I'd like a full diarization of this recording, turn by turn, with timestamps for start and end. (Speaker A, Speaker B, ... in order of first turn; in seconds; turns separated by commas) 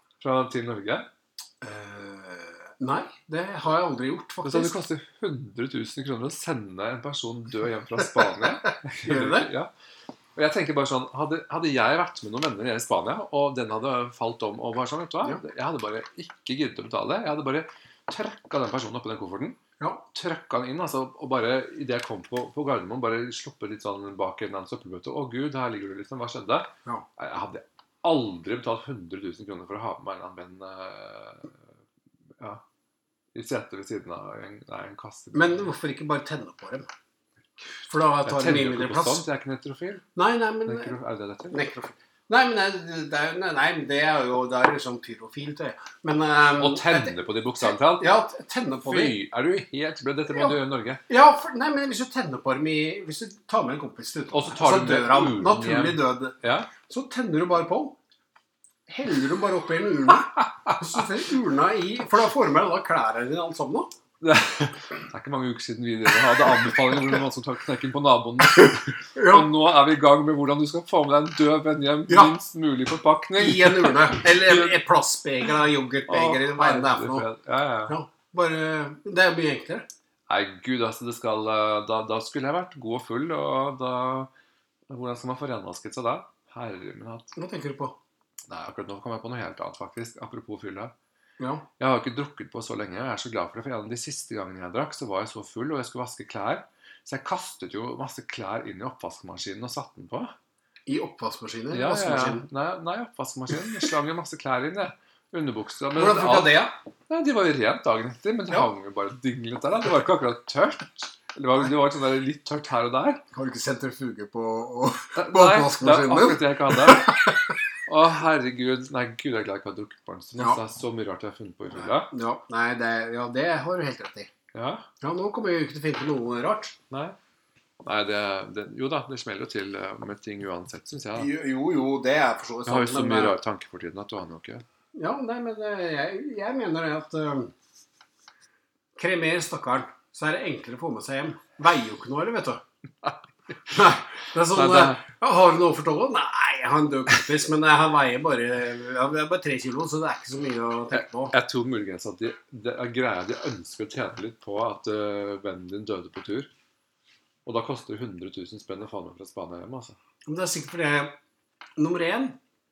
Speaker A: 0.2-1.1, Speaker B: 1.6-4.8, Speaker A: 4.4-9.7, Speaker B: 8.4-9.5, Speaker A: 10.3-19.6, Speaker B: 19.8-20.1, Speaker A: 20.1-31.6, Speaker A: 33.3-35.7, Speaker B: 35.3-36.9, Speaker B: 37.9-39.3, Speaker A: 38.2-40.0, Speaker B: 40.2-41.0, Speaker A: 40.6-41.6, Speaker B: 41.5-47.2, Speaker A: 46.6-48.1, Speaker B: 47.7-49.2, Speaker A: 48.9-51.0, Speaker B: 51.1-58.0, Speaker A: 54.3-56.7, Speaker B: 58.9-63.9, Speaker A: 64.2-74.8, Speaker B: 69.2-69.5, Speaker B: 72.1-72.3, Speaker B: 73.4-77.3, Speaker A: 76.1-78.0, Speaker B: 77.9-79.9, Speaker A: 80.3-84.3, Speaker A: 84.9-87.3, Speaker B: 87.3-88.0, Speaker A: 88.5-90.9, Speaker B: 91.4-91.7, Speaker A: 91.8-100.3, Speaker B: 100.9-102.5, Speaker A: 101.7-113.2, Speaker B: 106.0-106.8, Speaker B: 113.3-117.4, Speaker A: 115.2-117.3, Speaker A: 117.9-122.1, Speaker B: 121.7-124.3, Speaker A: 124.5-124.9, Speaker B: 125.0-126.8, Speaker A: 126.9-127.2, Speaker A: 127.8-131.3, Speaker B: 131.2-133.4, Speaker A: 132.7-134.6, Speaker B: 134.9-137.5, Speaker B: 139.0-142.6, Speaker B: 143.7-151.3, Speaker A: 144.5-145.0, Speaker A: 150.9-156.5, Speaker A: 157.4-160.0, Speaker B: 160.3-161.2, Speaker B: 161.8-162.4